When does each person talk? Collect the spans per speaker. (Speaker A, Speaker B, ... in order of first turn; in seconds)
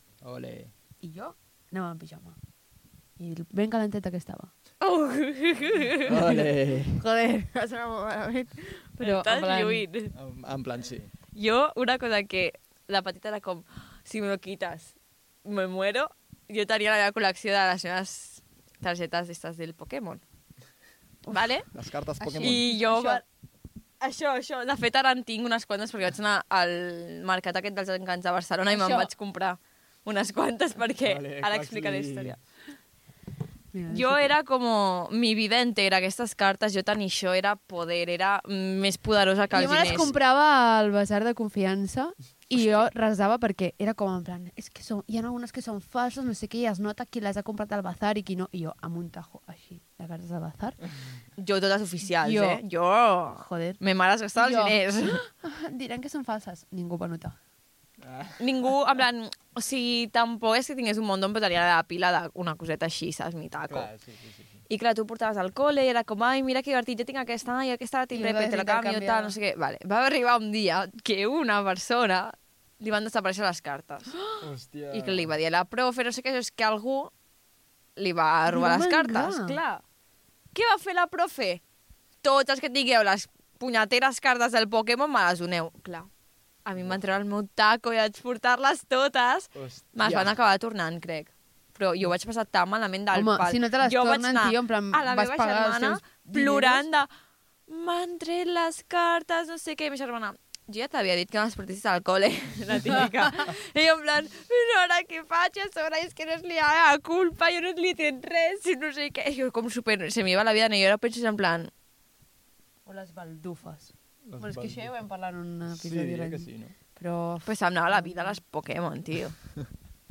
Speaker A: 0.2-0.7, 6.0-7.0, 10.1-11.1, 21.7-22.7, 31.0-32.4, 39.6-40.1, 58.0-58.4, 63.7-64.6, 74.4-75.3, 89.5-90.3, 114.3-114.9, 115.7-116.7
Speaker B: 1.0-2.4, 3.2-4.5, 6.9-9.8, 22.2-23.2, 28.7-29.1, 33.7-34.3, 39.5-50.8, 52.1-52.6, 53.4-53.8, 54.4-57.4, 68.1-69.3, 78.5-79.6, 93.1-96.8, 112.8-118.4
Speaker C: 4.8-6.3, 9.0-10.1, 11.3-20.2, 21.3-21.7, 22.4-23.2, 24.0-32.4, 33.9-40.1, 51.4-55.2, 58.4-63.9, 64.7-74.2, 74.9-77.1, 78.0-79.8, 80.5-81.6, 82.2-86.1, 86.6-97.1, 97.7-111.7, 117.4-119.4